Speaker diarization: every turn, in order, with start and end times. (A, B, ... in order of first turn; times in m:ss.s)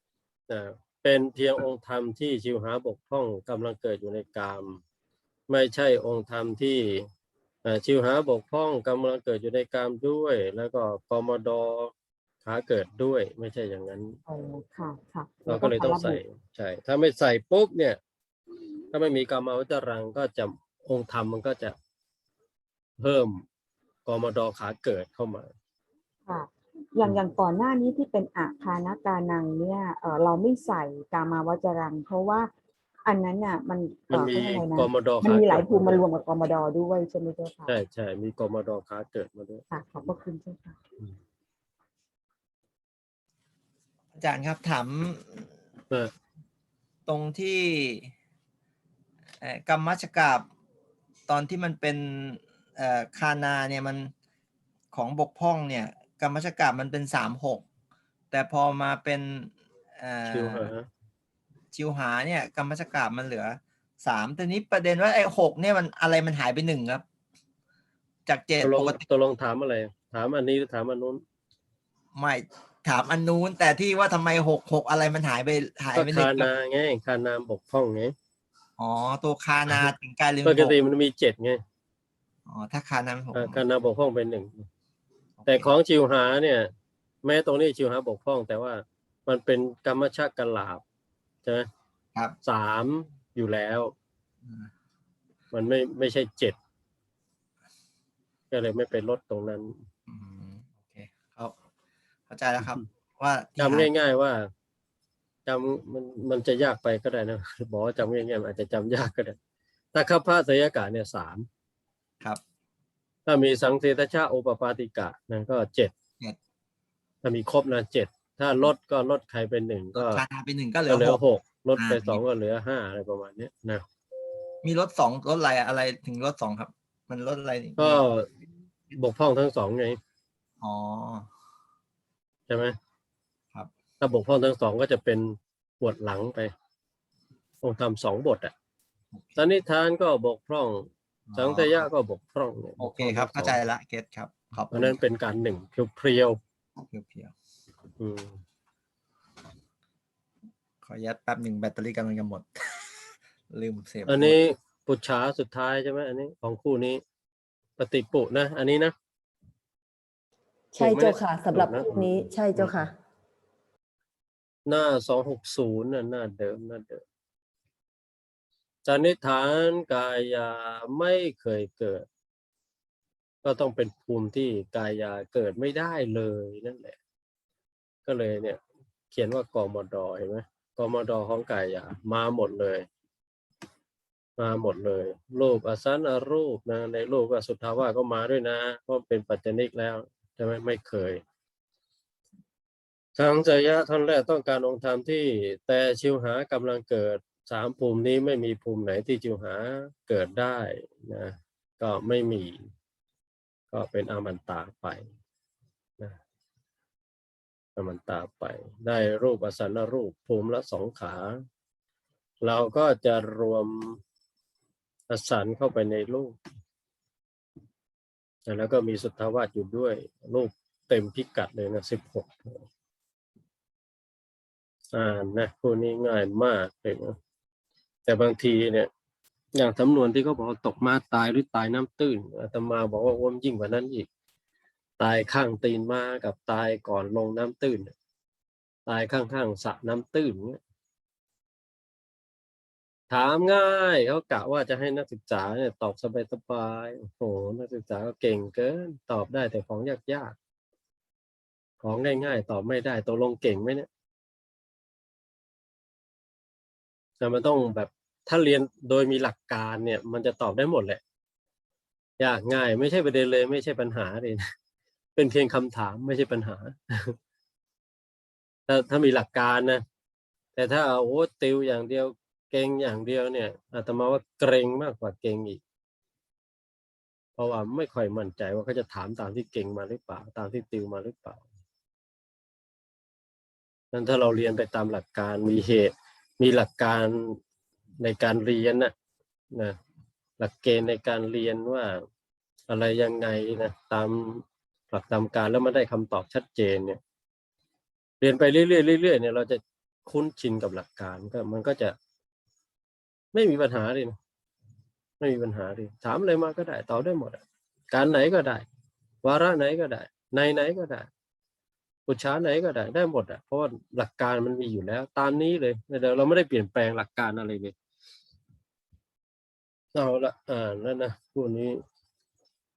0:00.5-0:04.8 A
0:05.5-0:07.0 A
0:07.6-0:11.9 A
0:12.4-0:14.2 A
0:14.3-0:16.2 B
0:15.5-0:18.0 A
0:18.9-0:21.7 A
0:23.0-0:23.4 A
0:24.0-0:25.5 A
0:26.3-0:32.5 B
0:33.0-0:37.8 B
0:34.1-0:36.0 A
0:37.7-0:39.6 A
0:39.7-0:40.8 B
0:44.2-0:45.5 C
0:47.0-0:48.1 C
0:49.4-0:50.5 C
0:51.3-0:54.1 C
0:54.9-0:57.6 C
0:58.3-1:00.7 C
1:00.3-1:00.9 A
1:01.7-1:07.0 C
1:08.3-1:09.0 C
1:08.6-1:11.2 A
1:12.1-1:16.5 C
1:15.9-1:18.1 A
1:18.8-1:20.8 C
1:20.4-1:21.6 A
1:22.4-1:23.6 C
1:23.3-1:24.7 A
1:25.4-1:25.7 C
1:25.5-1:26.7 A
1:27.2-1:30.8 A
1:32.4-1:33.9 A
1:34.4-1:34.7 C
1:35.5-1:36.6 A
1:38.5-1:39.8 A
1:40.1-1:41.6 C
1:42.3-1:43.9 C
1:43.6-1:44.5 A
1:45.4-1:49.4 A
1:49.9-1:51.5 A
1:53.3-1:55.9 A
1:57.2-2:00.2 A
1:59.9-2:01.2 C
2:00.9-2:03.8 A
2:01.8-2:02.2 C
2:04.6-2:08.0 C
2:07.8-2:08.3 A
2:08.9-2:10.0 A
2:10.6-2:11.3 C
2:12.5-2:12.7 A
2:14.0-2:16.5 A
2:17.6-2:18.5 A
2:19.1-2:19.4 C
2:19.4-2:23.6 A
2:21.3-2:21.9 C
2:22.8-2:25.0 C
2:24.7-2:26.4 A
2:26.8-2:27.3 C
2:28.0-2:28.4 A
2:30.8-2:34.4 C
2:34.1-2:37.0 A
2:37.8-2:38.9 A
2:40.7-2:42.9 D
2:40.8-2:42.8 A
2:44.7-2:47.0 A
2:48.8-2:52.0 A
2:53.4-2:57.0 A
2:58.0-2:58.6 A
2:59.1-3:02.9 A
3:04.4-3:11.2 A
3:13.2-3:22.6 A
3:23.7-3:25.0 A
3:27.8-3:31.4 A
3:32.4-3:34.0 A
3:35.1-3:36.4 A
3:38.5-3:42.6 A
3:44.9-3:47.2 A
3:48.1-3:48.9 A
3:49.5-3:54.1 A
3:55.0-3:57.9 A
3:58.8-4:00.6 A
4:03.1-4:10.3 A
4:11.8-4:13.9 A
4:17.2-4:21.0 A
4:22.2-4:24.4 A
4:25.2-4:27.2 A
4:28.7-4:29.8 A
4:30.6-4:35.6 A
4:37.4-4:41.4 A
4:43.9-4:47.4 A
4:48.0-4:48.9 A
4:50.4-4:52.0 A
4:52.7-4:57.0 A
4:58.2-5:01.9 A
5:03.3-5:04.2 A
5:05.2-5:08.6 A
5:09.2-5:11.1 A
5:12.1-5:17.7 A
5:19.9-5:21.8 A